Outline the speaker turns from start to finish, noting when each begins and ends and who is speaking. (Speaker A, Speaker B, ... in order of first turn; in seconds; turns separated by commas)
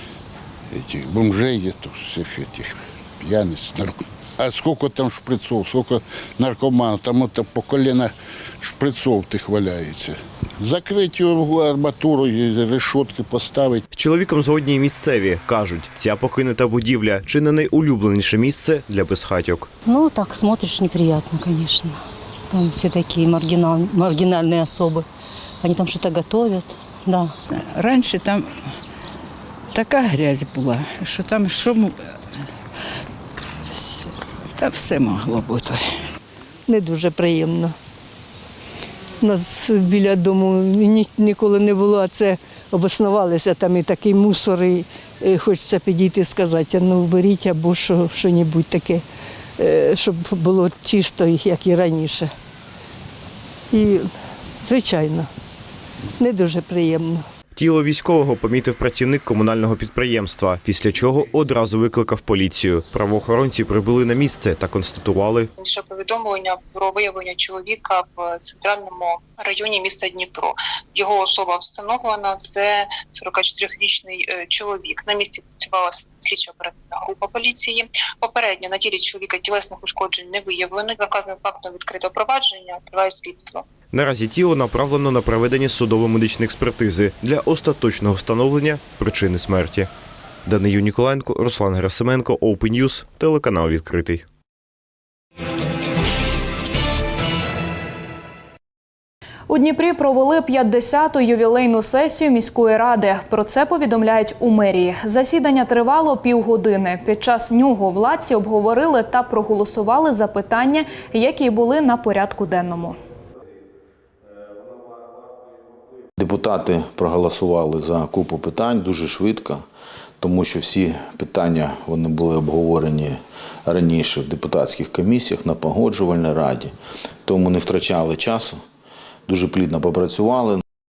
Speaker A: 0.7-13.8, Speaker B: 13.9-19.7, Speaker C: 19.8-25.0, Speaker C: 25.6-27.3, Speaker D: 27.5-28.5, Speaker D: 29.7-31.9, Speaker D: 33.7-35.8, Speaker C: 36.7-37.7, Speaker C: 39.2-49.0, Speaker C: 49.6-52.3, Speaker C: 53.7-54.1, Speaker C: 54.6-55.3, Speaker C: 56.2-57.2, Speaker B: 57.5-65.5, Speaker E: 65.6-83.6, Speaker B: 83.9-89.9, Speaker B: 90.5-94.2, Speaker F: 99.5-113.0, Speaker G: 116.2-119.6, Speaker G: 120.2-126.7, Speaker G: 127.2-128.6, Speaker G: 129.3-130.6